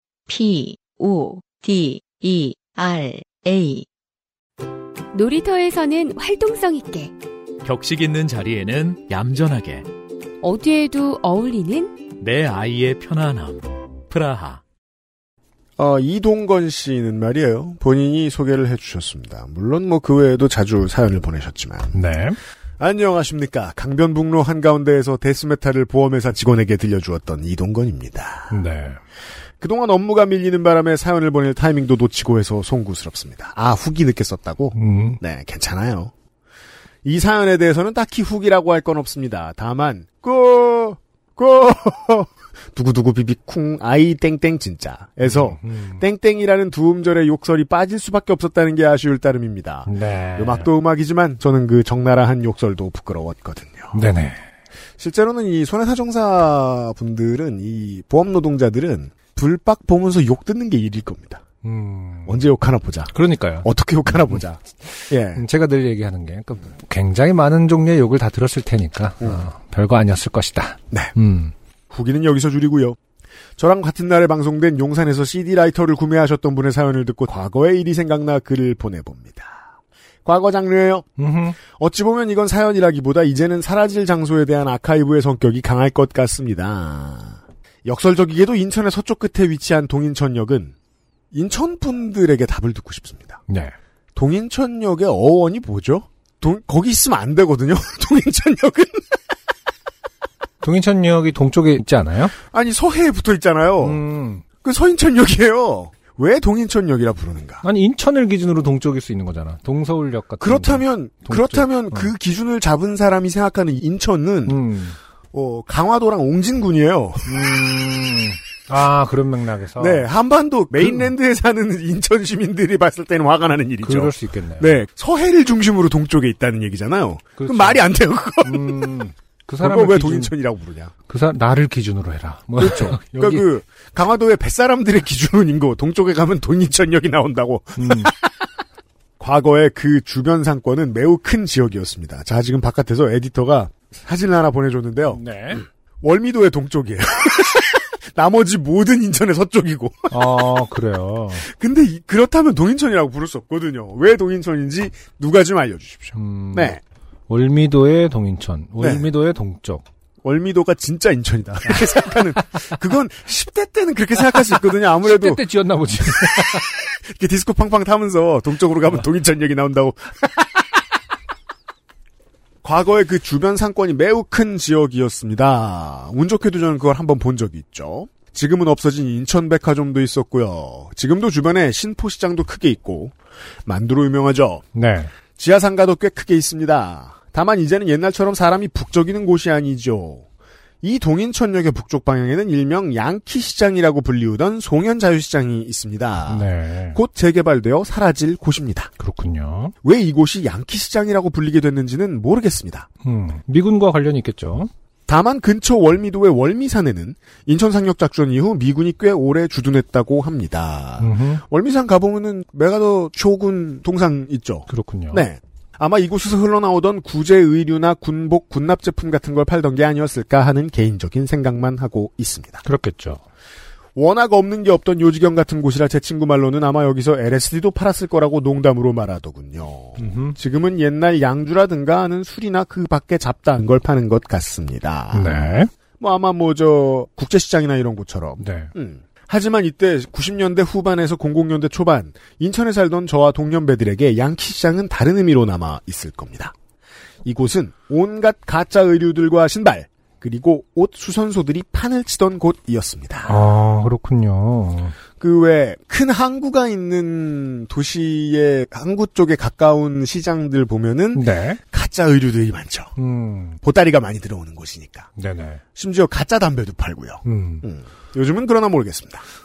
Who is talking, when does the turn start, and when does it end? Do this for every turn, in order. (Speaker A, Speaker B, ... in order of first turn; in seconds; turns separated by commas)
Speaker A: 0.3-3.9, Speaker B: 5.1-7.1, Speaker C: 7.6-9.8, Speaker B: 10.4-12.0, Speaker C: 12.2-14.6, Speaker D: 15.8-22.0, Speaker E: 21.9-22.4, Speaker D: 22.8-28.6, Speaker E: 28.5-29.0, Speaker D: 29.6-36.1, Speaker E: 34.7-35.2, Speaker D: 37.0-54.0, Speaker E: 45.2-46.0, Speaker E: 49.9-50.7, Speaker E: 53.9-54.4, Speaker D: 55.0-61.4, Speaker E: 61.6-62.5, Speaker D: 62.2-65.4, Speaker E: 63.1-63.7, Speaker E: 65.0-71.5, Speaker D: 69.2-69.5, Speaker D: 71.9-73.0, Speaker D: 73.6-79.7, Speaker D: 80.2-81.1, Speaker E: 81.2-81.6, Speaker D: 81.7-90.7, Speaker D: 91.3-93.4, Speaker E: 93.5-93.7, Speaker D: 94.1-99.2, Speaker E: 100.6-102.3, Speaker D: 102.4-104.0, Speaker E: 103.8-104.4, Speaker D: 104.6-107.6, Speaker E: 107.6-112.1, Speaker D: 110.4-114.6, Speaker E: 114.5-115.0, Speaker D: 115.3-117.4, Speaker E: 117.2-120.0, Speaker D: 119.8-129.0, Speaker E: 120.8-121.1, Speaker E: 123.8-124.8, Speaker E: 127.4-127.8, Speaker E: 128.4-130.3, Speaker D: 129.6-130.9, Speaker E: 131.1-133.5, Speaker D: 132.6-138.3, Speaker E: 137.8-138.1, Speaker D: 139.2-150.3, Speaker E: 145.1-145.6, Speaker E: 150.1-151.4, Speaker D: 151.4-156.8, Speaker E: 156.1-156.8, Speaker E: 157.3-159.8, Speaker D: 158.8-159.1, Speaker D: 160.2-165.4, Speaker E: 164.4-166.7, Speaker D: 166.2-170.6, Speaker D: 172.6-183.1, Speaker D: 183.6-184.6, Speaker E: 184.7-185.1, Speaker D: 185.3-190.2, Speaker D: 190.8-198.9, Speaker E: 196.3-197.0, Speaker E: 199.0-199.7, Speaker D: 199.8-202.9, Speaker E: 203.0-204.7, Speaker D: 205.1-222.6, Speaker E: 211.0-211.4, Speaker E: 214.7-215.3, Speaker E: 222.6-223.2, Speaker D: 223.9-235.4, Speaker E: 230.0-230.3, Speaker E: 235.1-235.7, Speaker D: 236.0-246.5, Speaker E: 238.4-238.7, Speaker D: 247.2-253.4, Speaker E: 253.2-254.9, Speaker D: 255.2-262.9, Speaker E: 261.1-261.6, Speaker E: 263.0-263.6, Speaker D: 263.6-265.1, Speaker E: 265.2-265.6, Speaker D: 265.7-269.2, Speaker E: 267.2-267.6